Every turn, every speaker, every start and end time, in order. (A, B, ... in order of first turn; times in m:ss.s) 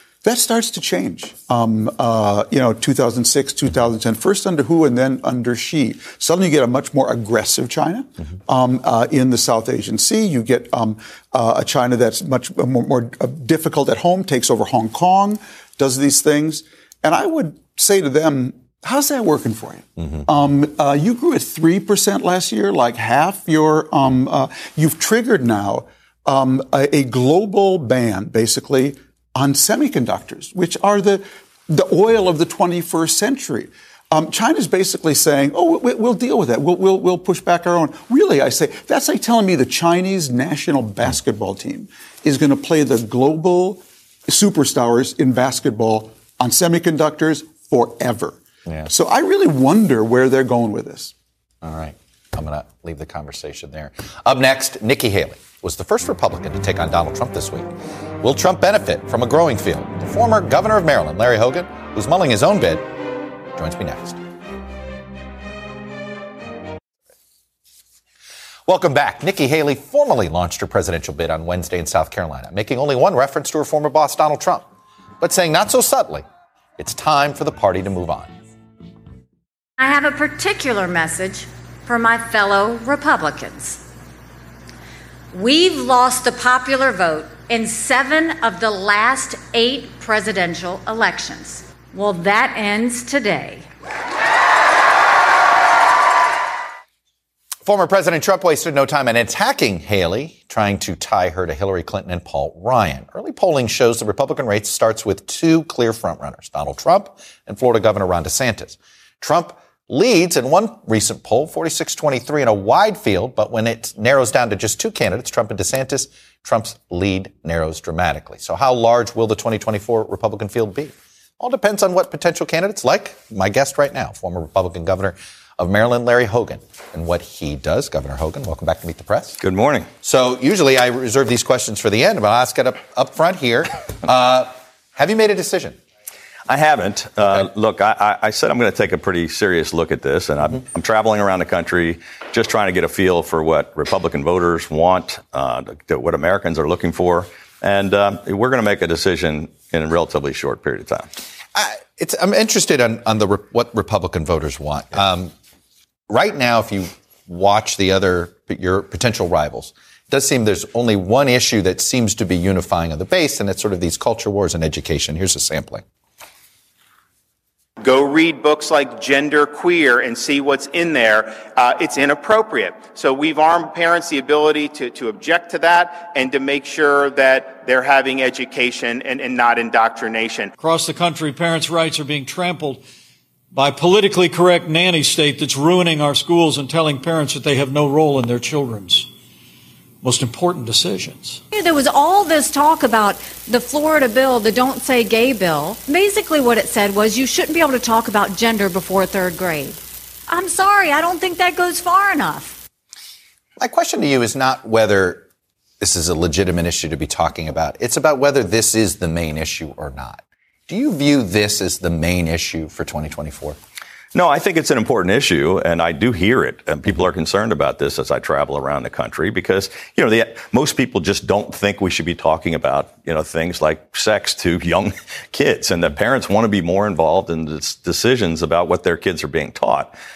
0:00.2-0:51.1 A
0:51.6-0:57.7 B
0:58.2-1:02.9 B
1:03.6-1:04.2 B
1:08.7-1:14.7 B
1:15.2-1:16.2 B
1:16.8-1:18.3 B
1:19.8-1:23.8 C
1:25.3-1:33.7 C
1:37.7-2:09.4 B
2:09.4-2:09.9 D
2:10.0-2:15.8 B
2:16.5-2:31.1 D
2:31.6-2:35.3 B
2:36.1-2:45.8 B
2:47.8-3:00.5 E
3:00.6-3:02.8 F
3:03.5-3:09.1 F
3:10.0-3:11.4 F
3:11.5-3:22.6 C
3:23.6-3:25.2 B
3:25.8-3:33.6 B
3:34.1-3:49.9 D